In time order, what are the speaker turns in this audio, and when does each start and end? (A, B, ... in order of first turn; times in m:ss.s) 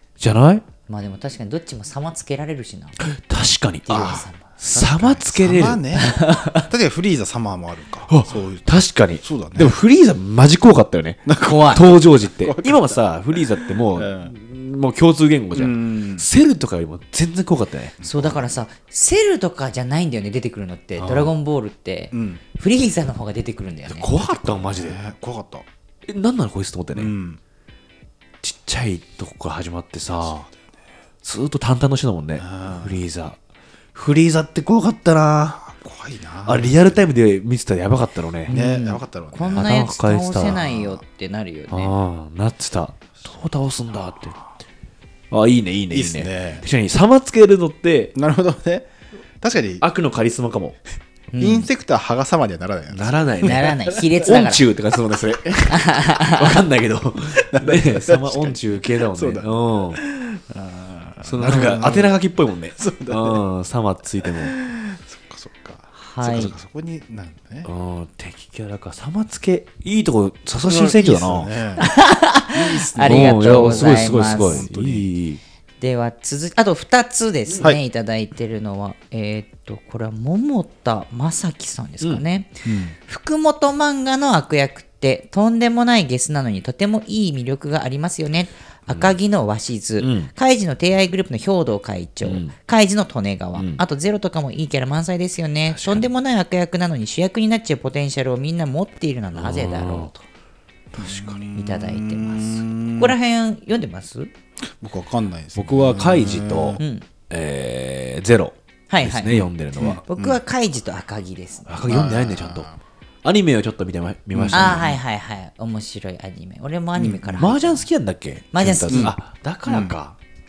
0:00.2-0:00.6 A
0:00.9-0:03.0 B
0:03.1-0:05.8 A
0:03.9-0:04.5 B
0:03.9-0:08.7 C
0:05.9-0:06.7 B
0:08.1-0:17.9 A
0:09.2-0:09.8 C
0:11.3-0:13.0 C
0:11.4-0:11.9 B
0:13.9-0:14.3 C
0:15.5-0:16.2 C
0:18.0-0:18.5 C
0:18.0-0:24.1 B
0:21.0-0:21.3 A
0:22.1-0:22.4 C
0:23.9-0:25.0 A
0:24.2-0:25.6 C
0:26.1-0:27.1 A
0:26.9-0:27.4 C
0:28.4-0:30.5 A
0:31.2-0:33.4 A
0:32.4-0:33.0 C
0:33.9-0:35.7 A
0:35.7-0:37.0 C
0:36.4-0:38.6 A
0:38.5-0:39.8 C
0:38.5-0:41.9 B
0:39.5-0:40.7 A
0:40.5-0:41.0 C
0:41.7-0:44.4 A
0:45.3-0:48.1 A
0:45.9-0:46.6 C
0:48.1-0:48.9 C
0:49.4-0:49.8 C
0:49.8-0:50.8 A
0:51.3-0:51.7 B
0:51.4-0:53.6 C
0:52.9-1:00.0 A
0:53.4-0:54.6 B
0:55.7-0:56.6 B
0:57.4-1:02.2 C
1:01.2-1:04.6 A
1:02.8-1:03.4 C
1:04.2-1:07.7 C
1:06.0-1:06.5 B
1:07.6-1:11.5 A
1:10.6-1:11.9 C
1:11.8-1:14.6 B
1:12.5-1:15.1 C
1:13.0-1:15.4 A
1:15.8-1:40.2 B
1:22.6-1:22.9 C
1:30.0-1:30.3 A
1:32.2-1:32.5 A
1:33.6-1:33.8 A
1:35.7-1:36.1 A
1:39.4-1:40.1 A
1:41.0-1:41.4 A
1:41.0-1:43.2 C
1:41.5-1:44.3 B
1:44.8-1:46.8 C
1:45.6-1:50.0 A
1:46.8-1:47.0 B
1:48.9-1:49.4 B
1:49.4-1:50.4 C
1:50.1-1:52.1 B
1:51.7-1:52.7 A
1:51.8-1:52.8 C
1:53.2-1:54.9 A
1:54.3-1:55.0 C
1:54.5-1:57.8 B
1:57.0-1:57.5 C
1:57.4-2:00.2 A
1:58.5-1:59.1 B
1:58.9-1:59.2 C
1:59.7-2:00.0 C